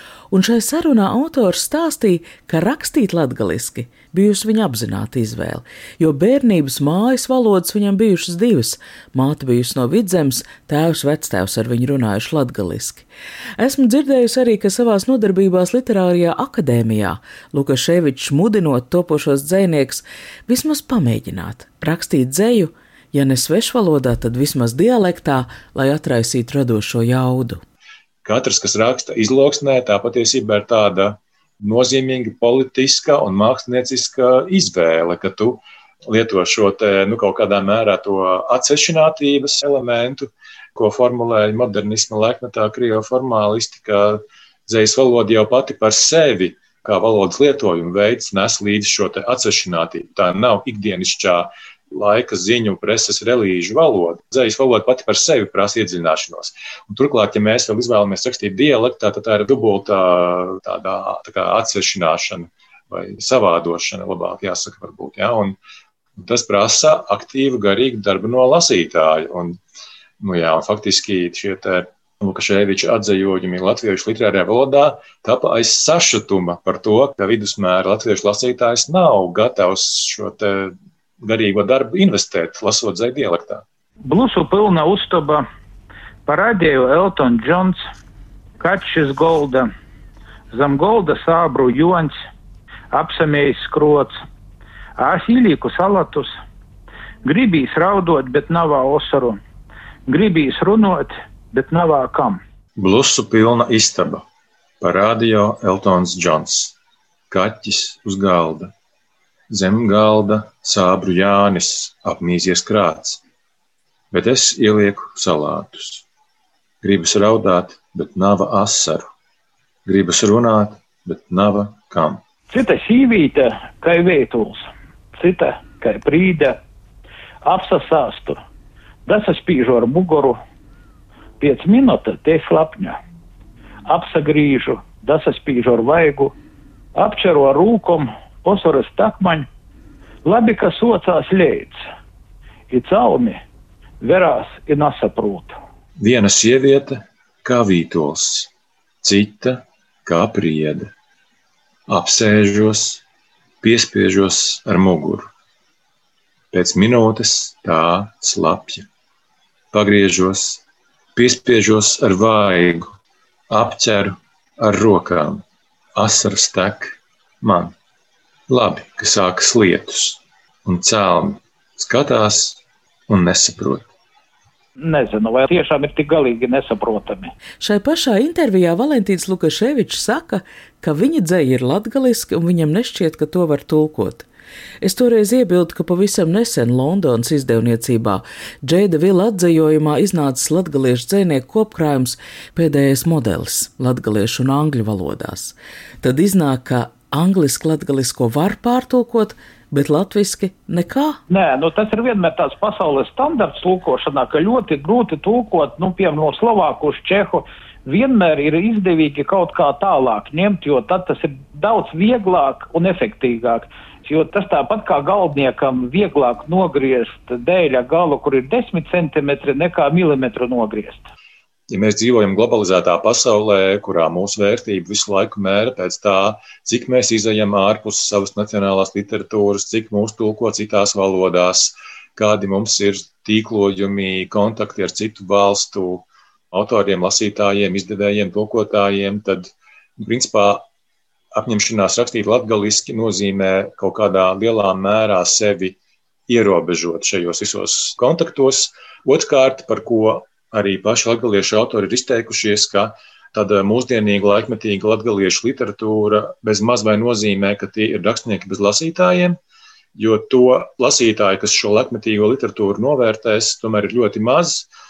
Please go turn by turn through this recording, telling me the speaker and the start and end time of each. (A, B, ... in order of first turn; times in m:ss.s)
0:00.3-0:13.0 A
0:13.6-0:27.6 A
0:28.2-1:05.6 B
1:06.2-1:09.6 B
1:10.2-1:23.6 B
1:24.0-1:25.4 C
1:26.2-1:27.8 C
1:28.6-1:29.7 C
1:30.5-1:32.1 C
1:32.9-1:34.1 C
1:35.0-1:36.3 C
1:37.2-1:39.4 C
1:40.1-1:42.4 C
1:42.8-1:44.2 B
1:44.8-1:46.7 B
1:47.3-1:48.7 B
1:49.5-1:53.2 B
1:54.1-1:56.0 B
1:56.8-1:59.0 B
1:59.8-2:02.2 B
2:02.5-2:04.6 C
2:05.2-2:06.6 C
2:07.4-2:08.4 C
2:09.0-2:10.4 C
2:11.4-2:13.0 C
2:13.8-2:16.3 C
2:16.9-2:19.5 C
2:20.2-2:21.8 C
2:22.7-2:23.4 C
2:24.0-2:25.5 C
2:26.0-2:28.5 B
2:29.0-2:30.9 B
2:31.9-2:33.0 B
2:33.6-2:35.3 B
2:36.5-2:38.9 B
2:39.7-2:40.6 B
2:41.2-2:42.9 B
2:43.5-2:45.4 B
2:45.9-2:47.7 B
2:48.5-2:53.9 B
2:54.8-2:57.3 C
2:57.6-3:04.2 A
3:04.8-3:21.2 A
3:21.3-3:41.0 C
3:41.7-4:00.6 B
4:01.3-4:05.8 B
4:06.3-4:19.4 B
4:20.0-4:24.7 B